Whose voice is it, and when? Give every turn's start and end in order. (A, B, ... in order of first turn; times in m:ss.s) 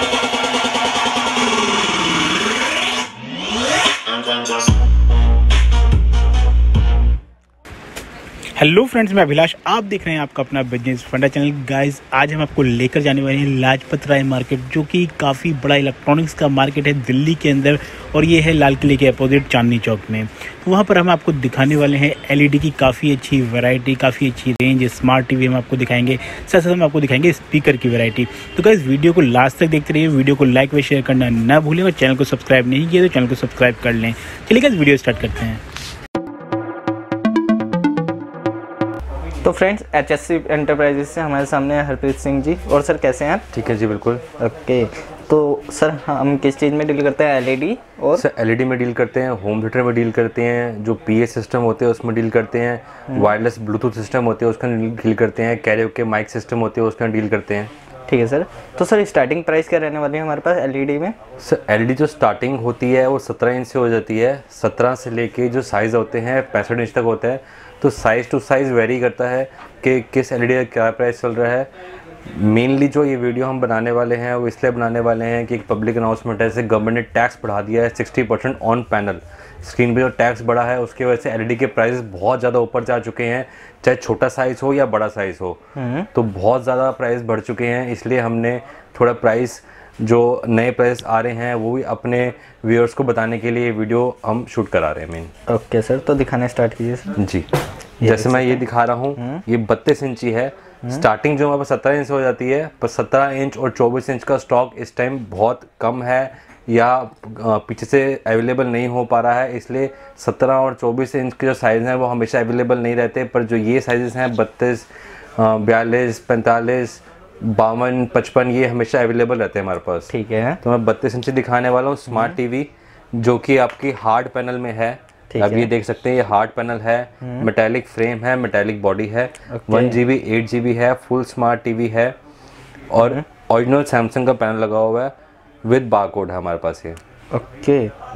0:08.6-0:35.6 A
0:39.4-0:43.4 B
0:43.5-0:44.2 C
0:44.4-0:48.2 B
0:48.2-0:57.7 C
0:58.1-1:01.2 B
1:01.4-1:11.7 C
1:12.3-1:25.6 C
1:25.8-1:26.1 B
1:26.1-1:35.3 C
1:35.5-1:37.1 B
1:37.2-1:37.5 C
1:38.0-1:38.6 B
1:38.0-2:00.1 C
1:39.1-1:39.4 B
2:00.1-2:00.6 B
2:00.6-2:12.2 C
2:05.3-2:05.7 B
2:07.2-2:07.5 B
2:09.5-2:10.0 B
2:12.9-2:15.1 C
2:15.6-2:17.0 C
2:17.3-2:17.9 B